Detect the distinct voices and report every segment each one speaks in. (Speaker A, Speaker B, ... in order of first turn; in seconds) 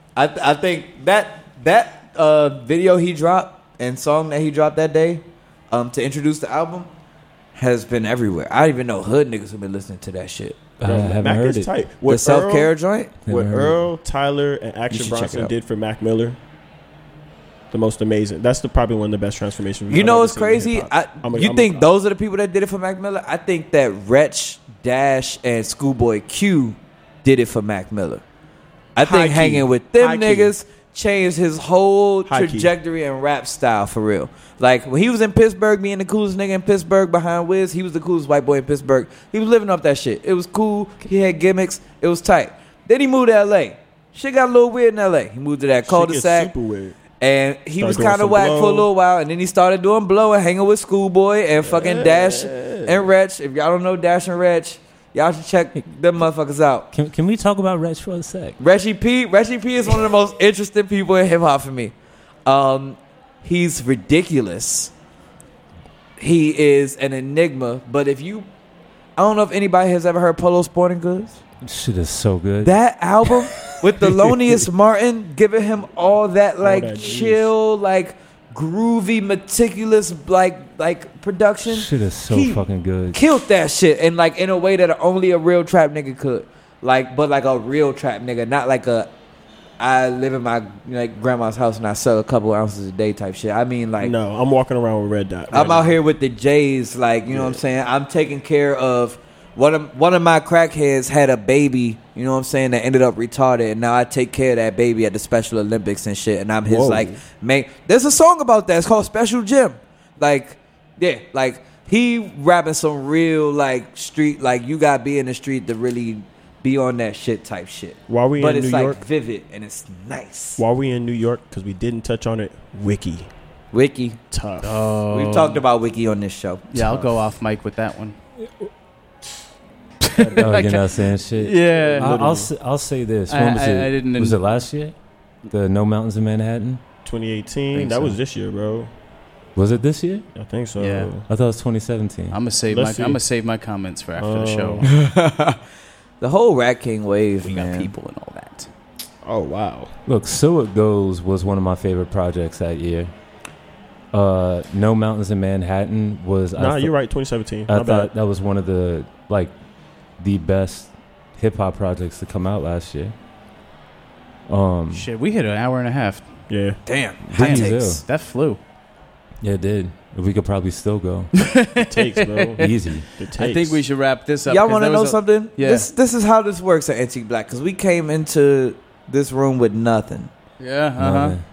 Speaker A: 0.2-6.9, 7.5-10.7, 12.1-13.1, 14.9-15.5, 19.9-28.2, 29.0-46.5, 47.2-56.9, 58.6-61.9, 62.5-64.9, 66.2-68.5, 69.2-71.4, 72.6-89.1, 89.8-94.1, 95.5-120.6, 123.7-124.2, 125.1-126.7, 144.9-145.6, 146.2-147.9, 166.9-168.0, 174.5-180.3
Speaker B: 10.8-11.7, 13.3-13.8, 56.9-58.6, 71.6-72.8, 73.7-74.7, 81.7-83.2, 130.4-134.9, 135.5-136.8, 139.6-140.2, 141.3-142.4, 150.1-153.1, 154.1-156.9, 157.7-159.5, 160.2-163.1, 164.5-165.1, 167.3-168.0, 169.4-171.3, 172.6-173.1, 181.0-181.4
Speaker C: 10.8-12.7, 13.3-16.4, 17.7-21.9, 29.0-30.5, 32.3-32.7, 45.8-47.0, 47.8-48.9, 51.6-53.1, 76.6-77.5, 94.0-96.0, 97.3-97.6, 106.7-107.2, 118.1-119.0, 120.6-123.3, 124.3-124.8, 130.2-130.6, 131.5-132.5, 137.0-138.9, 140.3-141.3, 142.7-143.2, 144.2-144.9, 149.2-149.9, 156.6-158.1, 166.5-166.8, 171.8-173.8
Speaker D: 124.6-125.6, 126.7-128.2, 130.0-130.8, 131.4-132.2, 133.3-134.4, 137.7-138.1, 140.8-141.1, 142.3-144.9, 147.4-148.7, 164.9-166.3, 167.3-168.6, 171.4-172.7, 173.4-175.9, 180.6-181.4